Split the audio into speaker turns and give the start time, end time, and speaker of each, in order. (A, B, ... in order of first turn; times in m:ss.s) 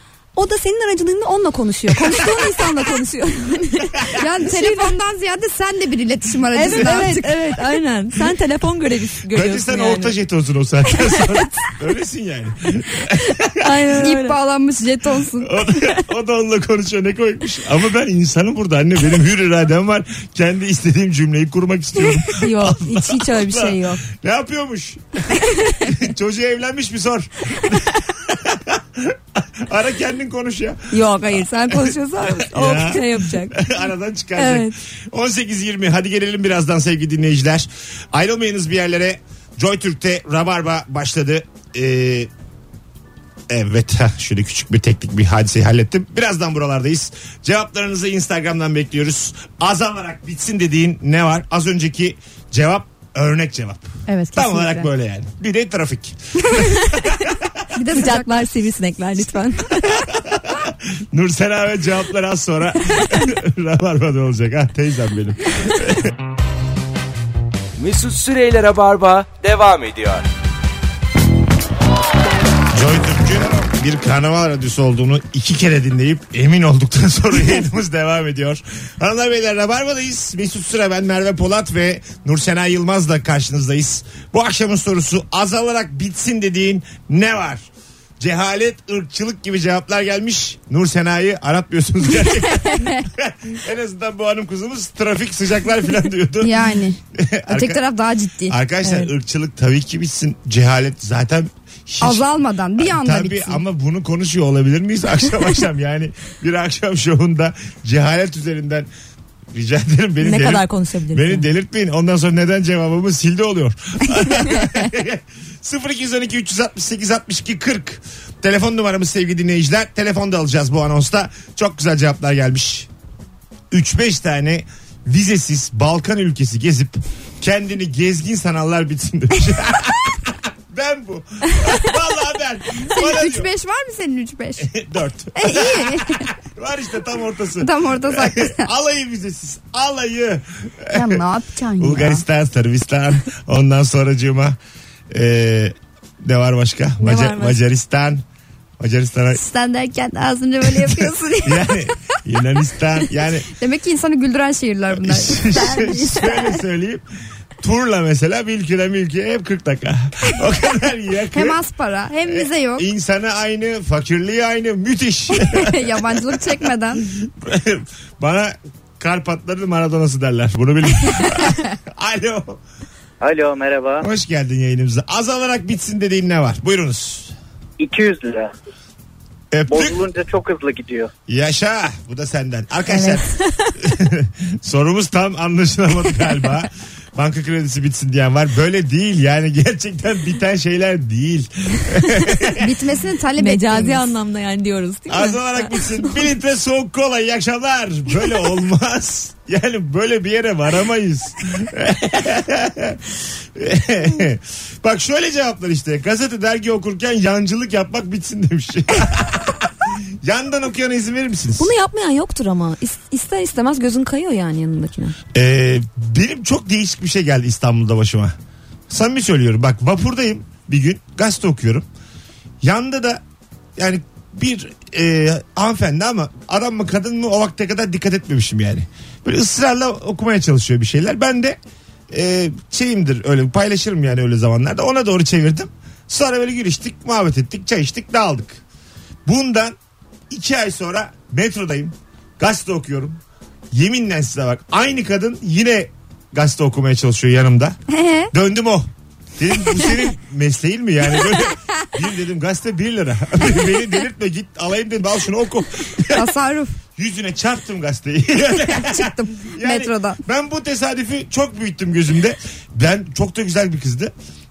0:00.4-0:04.9 A
0:01.9-0:02.6 B
0:03.9-0:04.2 B
0:04.1-0:07.4 C
0:06.5-0:10.2 A
0:06.7-0:07.0 B
0:09.3-0:13.7 B
0:10.9-0:11.6 A
0:13.6-0:14.4 A
0:14.0-0:15.5 C
0:15.4-0:42.3 B
0:22.0-0:24.0 A
0:25.4-0:25.8 A
0:30.9-0:33.7 A
0:34.4-0:34.7 A
0:43.5-0:57.5 B
0:54.1-0:54.9 C
0:56.4-0:56.7 C
0:57.7-0:58.4 C
0:57.9-1:00.0 A
0:59.9-1:06.1 B
1:07.8-1:10.2 D
1:12.7-1:27.7 B
1:28.2-1:36.6 B
1:32.6-1:33.0 C
1:36.4-1:38.6 C
1:37.1-1:37.8 B
1:38.5-1:42.3 B
1:38.8-1:39.1 A
1:42.0-1:43.6 C
1:42.8-1:48.9 B
1:49.5-2:02.9 B
1:50.2-1:51.5 A
2:03.7-2:13.5 B
2:12.8-2:14.7 C
2:14.6-2:21.2 B
2:15.3-2:16.2 C
2:17.6-2:18.7 C
2:20.9-2:22.2 C
2:21.8-2:24.6 B
2:25.1-2:28.2 B
2:27.0-2:27.6 A
2:28.8-2:29.4 B
2:29.3-2:31.8 C
2:30.8-2:33.5 B
2:33.5-2:35.5 C
2:35.0-2:37.0 B
2:35.5-2:36.6 A
2:37.6-2:41.6 B
2:41.3-2:42.8 C
2:42.3-2:52.6 B
2:45.3-2:47.0 C
2:53.2-2:54.0 E
2:54.0-2:57.3 B
2:57.8-2:58.5 E
2:59.5-3:00.0 B
2:59.7-3:01.1 E
3:01.3-3:12.7 B
3:02.9-3:03.7 A
3:12.5-3:14.1 C
3:13.4-3:16.2 A
3:15.1-3:31.7 B
3:31.6-3:35.1 A
3:35.3-3:38.3 B
3:38.9-3:41.8 B
3:42.6-3:43.2 B
3:43.8-3:51.6 B
3:52.1-3:58.6 B
3:59.2-3:59.8 B
4:00.3-4:03.2 B
4:03.7-4:07.8 B
4:07.9-4:08.3 C
4:08.3-4:16.3 B
4:16.1-4:16.7 C
4:17.0-4:24.1 B
4:18.6-4:20.2 C